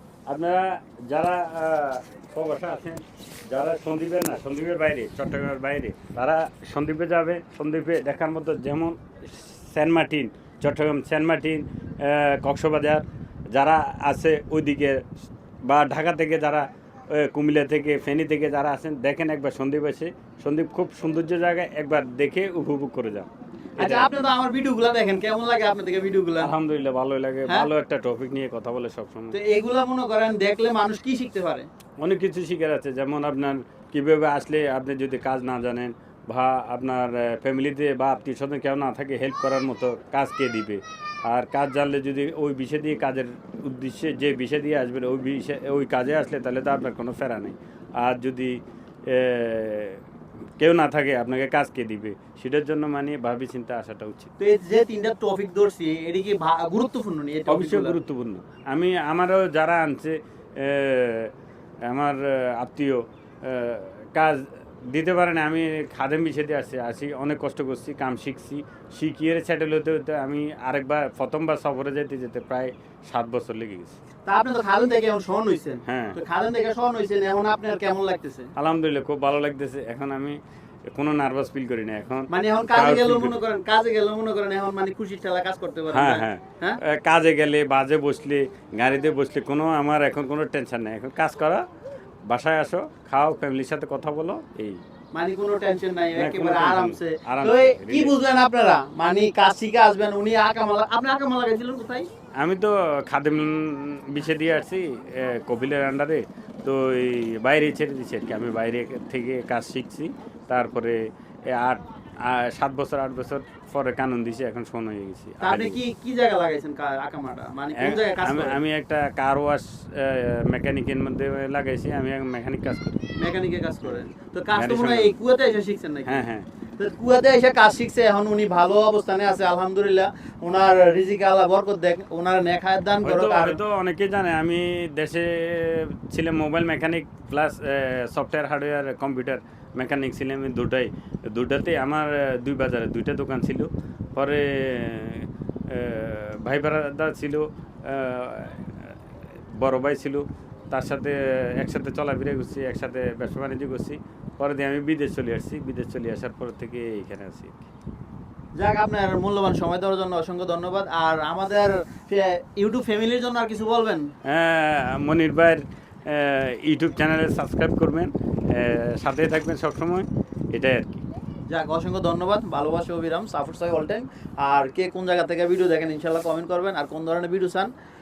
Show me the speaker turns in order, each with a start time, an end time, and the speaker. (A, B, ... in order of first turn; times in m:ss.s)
0:00.3-0:15.0 A
0:15.7-0:24.1 A
0:23.8-0:26.5 B
0:26.4-0:29.4 A
0:29.3-0:31.7 B
0:32.0-0:50.0 A
0:50.6-0:54.3 A
0:54.4-0:58.0 B
0:57.5-1:01.3 A
1:01.9-1:13.9 A
1:14.2-1:18.5 B
1:15.8-1:16.2 A
1:18.6-1:20.4 A
1:20.9-1:23.4 A
1:22.3-1:26.8 B
1:25.9-1:31.6 A
1:32.3-1:34.8 A
1:35.1-1:42.1 B
1:36.2-1:38.1 A
1:42.4-1:55.8 A
1:55.4-1:58.6 B
1:57.8-2:03.0 A
2:03.2-2:06.2 B
2:03.8-2:05.2 A
2:06.1-2:06.4 A
2:06.8-2:13.6 B
2:13.0-2:28.7 A
2:29.6-2:37.6 A
2:38.6-2:44.1 B
2:44.2-2:51.0 A
2:51.5-2:57.7 B